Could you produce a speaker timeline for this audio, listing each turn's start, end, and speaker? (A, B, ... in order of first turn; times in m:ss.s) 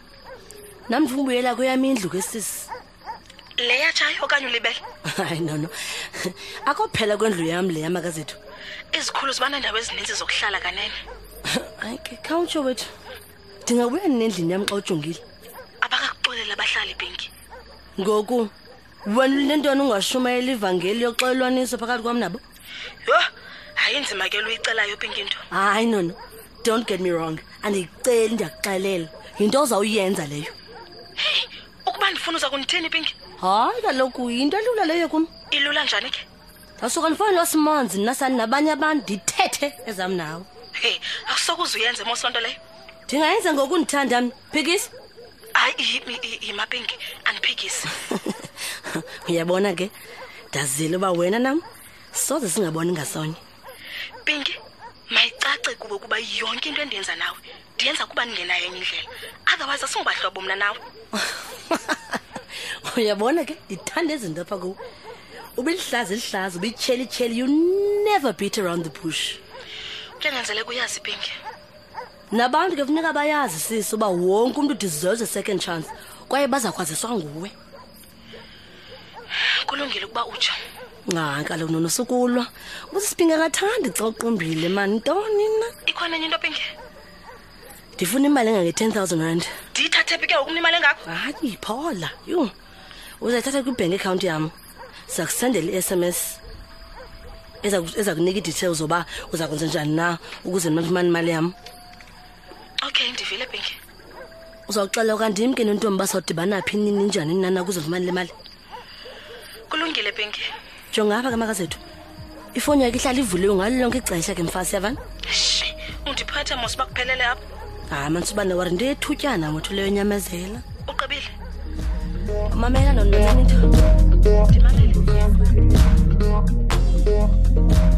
0:00.9-0:02.7 A
0:03.6-0:04.8 B
0:05.0-0:08.4 A
0:08.9-0:11.0 B
0:11.5-0:12.9 A
0:13.6-0:15.2 A
0:15.8-0:17.3 B
0:18.0-0:18.5 A
0:19.0-0:22.4 A
0:23.0-0:25.4 B
0:25.5-0:30.5 A
0:31.2-0:33.1 B
0:33.4-0:35.3 A
0:35.5-0:36.2 B
0:36.8-0:40.5 A
0:40.8-0:42.6 B
0:43.1-0:44.9 A
0:45.5-0:47.9 B
0:48.0-0:49.9 A
0:50.5-0:53.4 A
0:54.2-0:54.6 B
0:55.1-1:00.8 B
1:01.1-1:04.8 A
1:05.6-1:09.4 A
1:10.2-1:11.3 B
1:12.3-1:17.5 A
1:19.4-1:20.6 B
1:21.0-1:25.7 A
1:25.9-1:26.7 B
1:28.0-1:29.5 A
1:29.7-1:31.0 B
1:31.0-1:32.5 A
1:33.2-1:34.5 A
1:35.1-1:36.4 A
1:37.6-1:41.5 A
1:42.8-1:43.8 B
1:44.7-1:48.3 A
1:49.7-1:50.5 B
1:50.9-1:51.8 A
1:52.5-1:55.0 A
1:55.3-1:57.4 B
1:57.9-2:00.6 A
2:00.8-2:01.3 B
2:02.5-2:03.7 A
2:04.5-2:05.2 B